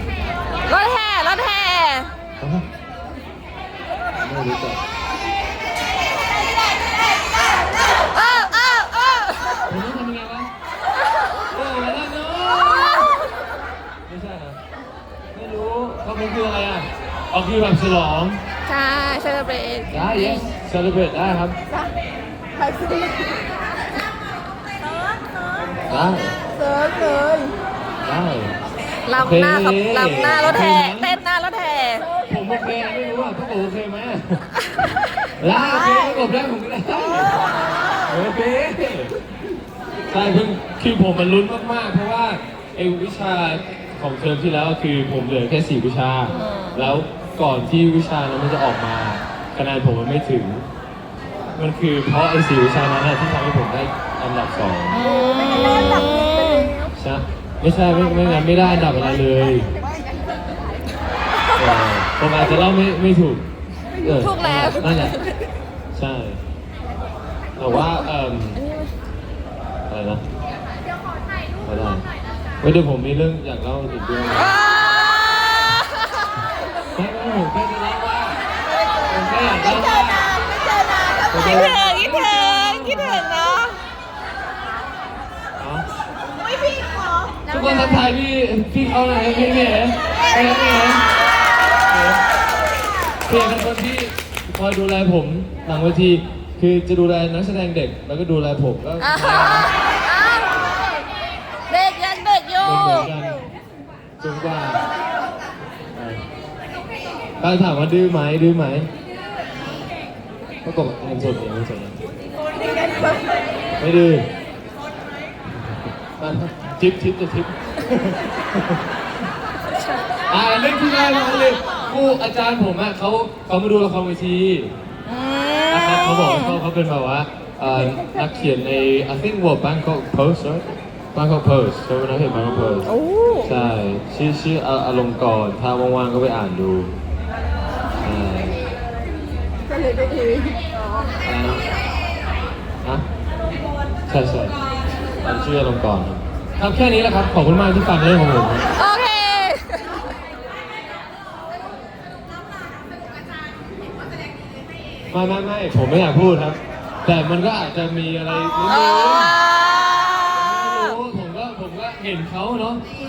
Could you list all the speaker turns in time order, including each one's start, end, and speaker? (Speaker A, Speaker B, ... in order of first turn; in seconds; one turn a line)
Speaker A: 0.6-2.1
Speaker B: 2.4-2.7
Speaker B: 4.2-4.8
Speaker A: 8.1-9.6
Speaker B: 9.7-10.5
Speaker B: 11.5-13.2
Speaker B: 14.1-14.6
Speaker B: 15.3-18.4
Speaker A: 18.7-20.5
Speaker B: 19.9-21.6
Speaker C: 22.6-23.4
Speaker A: 24.9-25.8
Speaker B: 25.9-26.4
Speaker C: 26.5-27.6
Speaker B: 28.0-28.6
Speaker A: 29.1-32.1
Speaker B: 29.1-31.1
Speaker B: 32.2-34.4
Speaker A: 34.9-35.3
Speaker B: 35.4-39.2
Speaker A: 37.7-37.9
Speaker B: 40.1-50.7
Speaker A: 46.3-46.9
Speaker B: 51.6-55.0
Speaker A: 54.9-56.8
Speaker C: 55.1-56.9
Speaker B: 55.7-56.0
Speaker B: 56.9-59.7
Speaker C: 58.0-60.6
Speaker B: 61.5-65.2
Speaker A: 64.2-65.3
Speaker B: 65.9-66.4
Speaker B: 67.6-68.6
Speaker B: 69.9-70.2
Speaker B: 71.6-72.0
Speaker B: 72.6-74.6
Speaker A: 74.4-76.3
Speaker B: 76.9-78.4
Speaker B: 79.0-80.3
Speaker C: 79.4-81.5
Speaker B: 81.3-83.2
Speaker A: 81.4-83.8
Speaker B: 85.6-85.9
Speaker C: 86.3-87.6
Speaker B: 87.5-91.1
Speaker B: 91.9-92.2
Speaker B: 93.2-99.7
Speaker A: 99.0-100.6
Speaker B: 100.5-100.8
Speaker A: 101.7-103.2
Speaker B: 102.6-103.5
Speaker B: 104.2-104.8
Speaker B: 106.0-106.2
Speaker B: 107.4-108.9
Speaker B: 110.6-112.0
Speaker C: 112.6-112.9
Speaker B: 113.8-114.3
Speaker B: 115.6-118.8
Speaker B: 120.3-124.8
Speaker A: 125.1-126.6
Speaker B: 125.7-136.9
Speaker A: 132.8-133.5
Speaker B: 138.0-138.6
Speaker C: 139.7-141.1
Speaker B: 141.2-141.7
Speaker B: 144.1-144.6
Speaker B: 145.1-148.8
Speaker A: 148.8-150.1
Speaker B: 155.1-159.4
Speaker A: 158.7-160.7
Speaker B: 160.3-162.8